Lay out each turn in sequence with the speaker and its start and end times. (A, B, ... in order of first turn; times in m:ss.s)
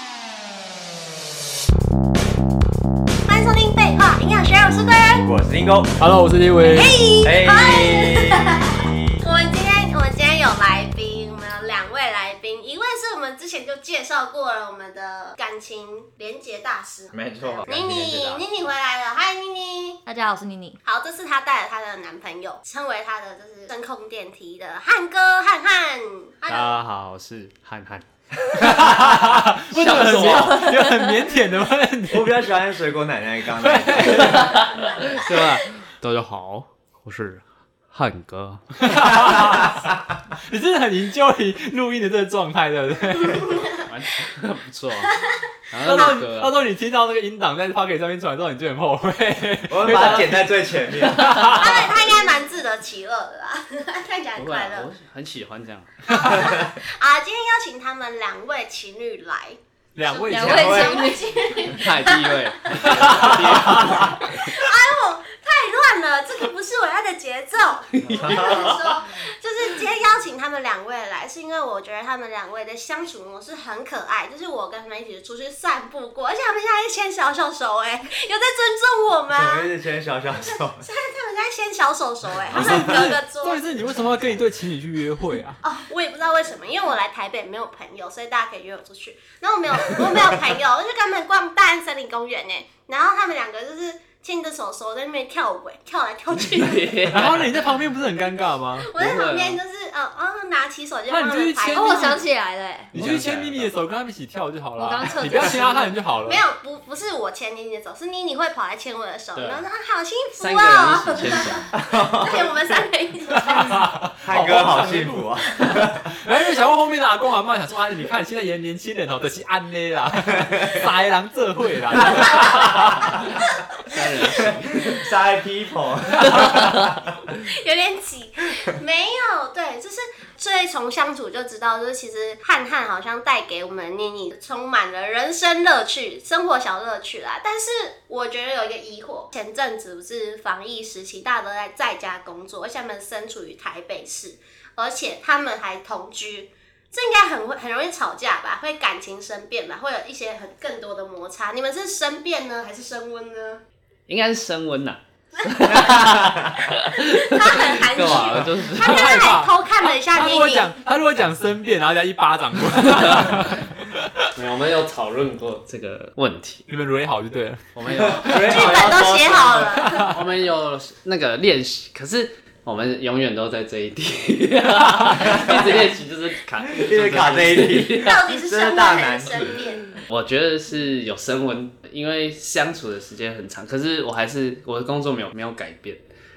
0:03.3-0:05.3 A
0:05.2-0:06.0 B
0:06.0-0:07.0 C
0:06.7-0:20.0 A
0:07.2-0:09.2 B
0:17.1-0:18.4 B
0:20.0-0:20.8 D
0:20.8-0:26.8 A
0:26.5-0:28.0 E
0:28.6-0:32.3 C
0:28.7-0:29.0 B
0:29.7-0:30.9 E
0:32.1-0:34.5 B
0:33.6-0:34.5 C
0:34.0-0:38.6 E
0:38.8-0:43.6 C
0:43.8-0:45.2 E
0:45.1-0:45.3 A
0:45.7-0:46.6 E
0:45.8-0:50.4 C
0:45.9-0:46.2 A
0:49.7-0:51.3 B
0:51.0-0:52.0 C
0:51.4-0:54.9 A
0:54.4-0:56.1 E
0:56.0-1:19.7 A
1:00.0-1:01.1 C
1:00.3-1:01.2 D
1:00.5-1:00.9 B
1:01.7-1:04.6 E
1:02.8-1:04.1 C
1:08.0-1:08.8 E
1:08.0-1:08.8 B
1:19.3-1:20.8 B
1:20.5-1:23.8 A
1:22.5-1:25.6 C
1:22.5-1:23.1 B
1:25.6-1:37.5 A
1:36.3-1:37.5 E
1:37.1-1:38.9 C
1:38.8-1:42.2 A
1:39.0-1:39.6 E
1:41.1-1:42.2 C
1:41.7-1:43.0 D
1:42.9-1:46.4 C
1:42.9-1:43.7 E
1:44.8-1:45.9 D
1:46.2-1:53.7 A
1:49.3-1:49.7 E
1:50.4-1:51.7 E
1:51.7-1:52.5 B
1:53.3-1:55.2 C
1:54.2-1:56.0 B
1:55.8-2:03.2 C
2:00.4-2:00.7 B
2:03.9-2:05.0 E
2:03.9-2:04.3 A
2:04.2-2:07.1 B
2:07.3-2:33.6 A
2:34.1-2:39.1 E
2:35.4-2:36.0 A
2:35.6-2:36.6 B
2:36.8-2:40.7 A
2:38.8-2:44.3 C
2:44.4-2:46.6 E
2:46.7-2:48.5 C
2:47.8-2:48.8 E
2:48.0-2:49.8 B
2:48.3-2:50.1 A
2:49.8-2:50.2 C
2:50.1-2:58.2 E
2:55.0-2:55.3 C
2:55.2-2:55.9 B
2:56.7-2:59.6 B
2:57.9-3:00.0 A
3:00.1-3:06.0 E